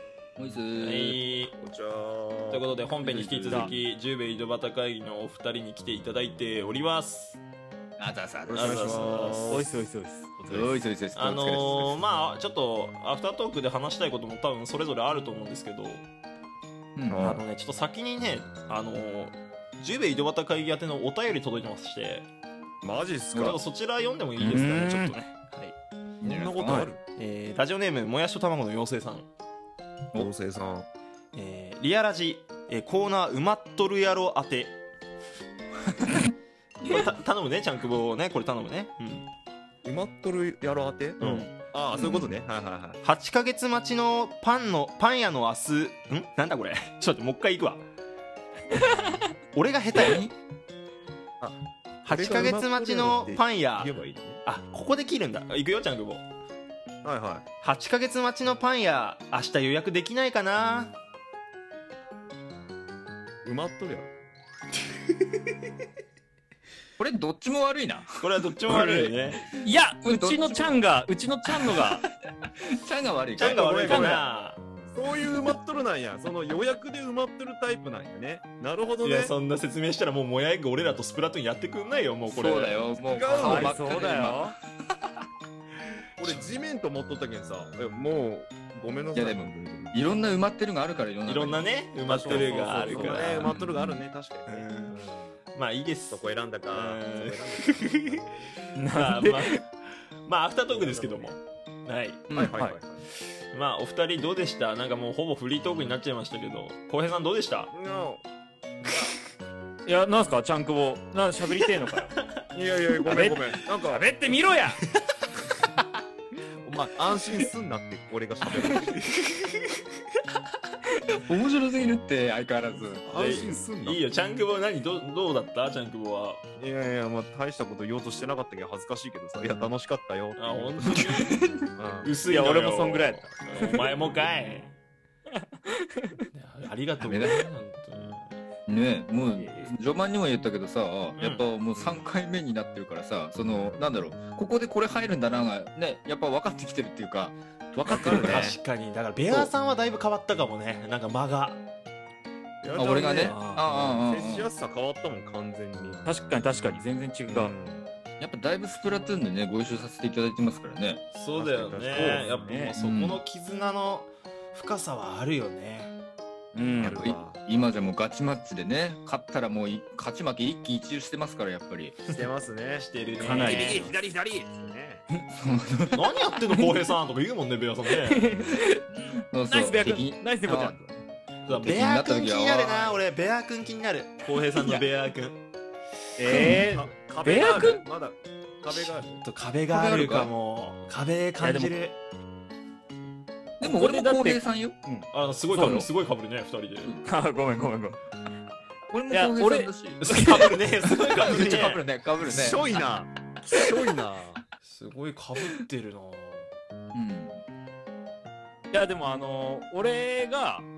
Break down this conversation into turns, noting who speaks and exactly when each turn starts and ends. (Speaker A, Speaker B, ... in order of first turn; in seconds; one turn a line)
Speaker A: 0.4-1.2
Speaker B: 0.8-1.5
Speaker C: 1.6-2.7
Speaker B: 2.5-7.4
Speaker A: 3.0-3.8
Speaker A: 8.0-9.2
Speaker C: 8.5-9.8
Speaker B: 8.5-9.6
Speaker D: 9.5-10.7
Speaker A: 10.5-12.0
Speaker B: 11.2-16.1
Speaker A: 17.0-17.4
Speaker C: 17.1-17.4
Speaker B: 17.2-22.3
Speaker C: 22.8-23.6
Speaker B: 23.4-25.7
Speaker D: 24.4-25.3
Speaker A: 26.2-26.9
Speaker C: 26.2-27.0
Speaker B: 27.2-29.3
Speaker C: 30.2-30.9
Speaker B: 31.3-34.8
Speaker A: 36.0-36.3
Speaker B: 36.8-39.3
Speaker C: 39.8-43.0
Speaker B: 41.2-41.5
Speaker A: 41.9-42.3
Speaker B: 43.0-47.8
Speaker B: 49.5-50.3
Speaker C: 51.4-54.4
Speaker B: 52.0-56.2
Speaker C: 57.0-57.5
Speaker B: 57.6-60.9
Speaker C: 63.4-64.1
Speaker A: 67.0-68.2
Speaker B: 68.2-69.5
Speaker D: 68.7-72.0
Speaker A: 70.0-70.8
Speaker A: 72.7-74.0
Speaker B: 73.4-74.6
Speaker C: 73.4-74.2
Speaker D: 73.9-74.2
Speaker C: 74.9-79.3
Speaker B: 79.0-82.8
Speaker A: 82.3-84.5
Speaker C: 83.1-83.9
Speaker D: 83.4-84.5
Speaker C: 86.2-90.0
Speaker A: 89.2-91.7
Speaker B: 91.3-93.6
Speaker C: 92.1-95.3
Speaker D: 92.2-93.5
Speaker A: 93.5-94.0
Speaker B: 94.5-95.0
Speaker B: 95.5-98.0
Speaker C: 96.1-98.6
Speaker D: 98.8-99.6
Speaker B: 98.9-99.7
Speaker B: 100.3-102.3
Speaker C: 100.7-101.4
Speaker C: 102.3-103.0
Speaker D: 102.3-102.8
Speaker B: 103.5-107.7
Speaker C: 107.7-108.2
Speaker D: 109.9-112.2
Speaker B: 112.0-112.4
Speaker C: 112.5-114.1
Speaker D: 113.1-114.8
Speaker C: 116.6-119.0
Speaker B: 118.9-119.8
Speaker A: 121.1-123.0
Speaker C: 123.0-124.0
Speaker B: 123.1-126.4
Speaker C: 126.6-131.1
Speaker B: 130.4-131.4
Speaker A: 131.1-131.7
Speaker C: 131.8-132.2
Speaker B: 132.0-134.7
Speaker D: 132.3-133.9
Speaker D: 135.7-136.2
Speaker B: 136.3-138.3
Speaker A: 137.0-137.5
Speaker A: 138.7-148.5
Speaker B: 141.2-141.4
Speaker C: 141.8-142.1
Speaker C: 143.4-143.9
Speaker C: 147.8-148.6
Speaker B: 147.9-151.6
Speaker C: 152.6-156.1
Speaker A: 152.8-154.5
Speaker B: 153.2-153.6
Speaker D: 156.1-157.5
Speaker C: 157.3-157.8
Speaker A: 158.2-161.0
Speaker B: 161.1-165.9
Speaker C: 161.3-162.3
Speaker D: 161.9-162.7
Speaker A: 162.8-163.2
Speaker D: 166.5-167.1
Speaker C: 166.5-167.4
Speaker A: 166.8-172.1
Speaker C: 172.1-175.0
Speaker B: 172.7-173.9
Speaker D: 173.2-173.8
Speaker A: 173.5-173.8
Speaker A: 175.3-176.1
Speaker B: 175.9-178.3
Speaker D: 178.0-178.7
Speaker A: 178.4-180.8
Speaker D: 179.5-180.9
Speaker B: 181.4-185.4
Speaker A: 181.5-183.0
Speaker D: 186.2-187.8
Speaker A: 186.3-186.6
Speaker C: 186.5-189.2
Speaker B: 189.2-192.0
Speaker A: 189.7-190.3
Speaker D: 191.4-191.7
Speaker A: 193.6-194.8
Speaker D: 193.6-195.9
Speaker B: 195.1-196.9
Speaker D: 197.1-198.0
Speaker A: 198.9-200.4
Speaker D: 199.1-200.6
Speaker B: 200.0-201.8
Speaker A: 200.9-202.7
Speaker C: 202.2-204.4
Speaker B: 204.6-206.5
Speaker A: 206.9-207.4
Speaker D: 208.7-210.7